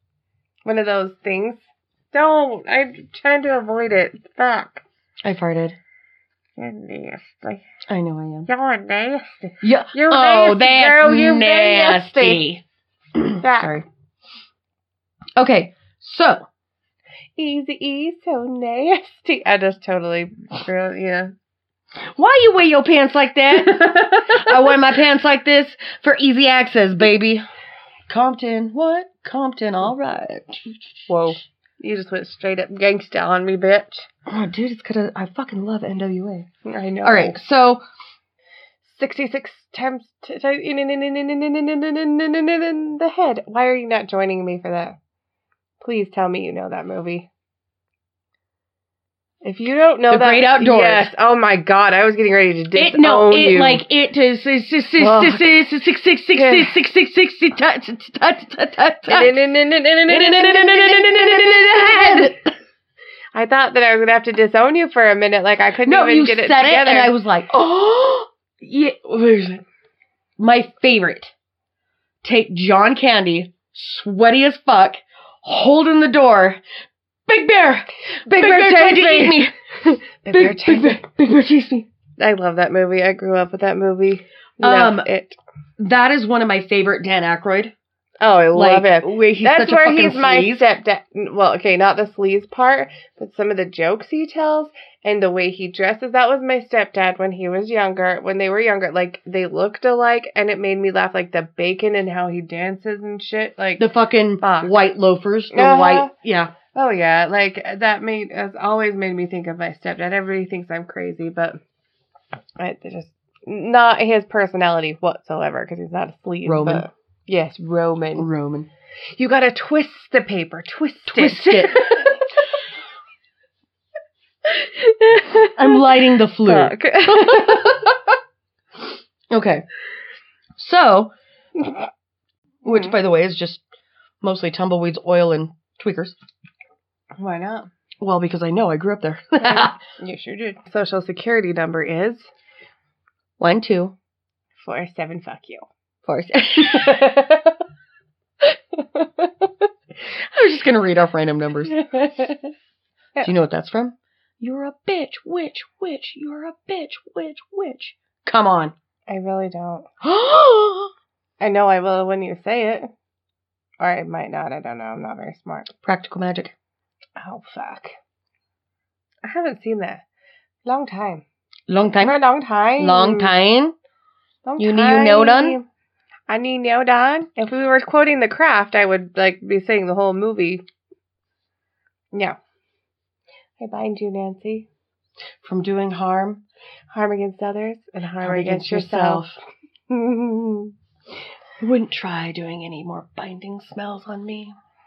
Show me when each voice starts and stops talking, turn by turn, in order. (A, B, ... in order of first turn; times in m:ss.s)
0:00.7-0:04.8 A
0:05.2-0:05.8 B
0:06.6-0:07.6 A
0:07.9-0:08.5 B
0:08.5-0:12.4 A
0:09.6-0:12.6 B
0:13.2-0:13.8 B
0:13.4-0:13.8 A
0:15.4-0:16.5 B
0:17.4-0:21.3 A
0:22.2-0:27.4 B
0:23.7-0:24.6 A
0:28.1-0:30.7 B
0:31.1-0:34.1 A
0:34.3-0:36.5 B
0:36.6-0:37.4 A
0:37.0-0:37.8 B
0:38.8-0:45.0 A
0:45.8-0:47.3 A
0:49.4-0:53.8 A
0:50.1-0:51.1 B
0:52.8-0:59.4 B
0:55.0-0:55.6 A
0:56.3-0:56.8 A
0:59.1-1:02.3 A
1:00.1-1:02.5 B
1:03.4-1:07.1 A
1:05.8-1:09.6 B
1:10.4-1:11.3 B
1:12.2-1:16.6 B
1:17.3-1:21.9 B
1:18.2-1:19.5 A
1:20.2-1:21.1 A
1:22.2-1:25.4 A
1:24.6-1:25.1 B
1:25.8-1:27.7 B
1:28.2-1:43.9 A
1:28.5-1:30.6 B
1:43.8-1:46.5 B
1:44.4-1:44.7 A
1:45.5-1:46.1 A
1:46.7-1:51.6 A
1:52.6-1:58.3 A
1:56.4-1:56.9 B
1:58.2-1:58.7 B
1:59.2-2:02.4 A
2:01.1-2:02.1 B
2:04.5-2:08.0 A
2:05.5-2:07.9 B
2:09.3-2:09.6 B
2:10.6-2:11.1 B
2:12.6-2:13.6 B
2:12.7-2:12.9 A
2:14.2-2:16.2 B
2:17.2-2:17.7 A
2:18.0-2:19.8 B
2:19.4-2:22.3 A
2:23.4-2:23.9 B
2:24.6-2:25.7 A
2:26.1-2:27.2 B
2:26.6-2:27.6 A
2:28.4-2:29.5 A
2:30.1-2:31.8 B
2:31.8-2:32.4 A
2:33.2-2:38.7 B
2:39.1-2:39.9 A
2:40.0-2:40.9 B
2:41.4-2:42.9 A
2:43.8-2:45.7 A
2:45.8-2:46.5 B
2:47.2-2:48.0 A
2:49.2-2:50.0 A
2:50.6-2:51.2 A
2:51.7-2:52.2 B
2:52.0-2:53.3 A
2:52.8-2:53.8 B
2:54.4-2:55.7 A
2:54.6-2:55.6 B
2:56.3-3:00.6 A
3:02.1-3:02.4 A
3:03.6-3:04.7 A
3:05.4-3:06.4 B
3:06.9-3:09.2 A
3:08.2-3:09.4 B
3:09.9-3:10.7 A
3:11.6-3:14.6 B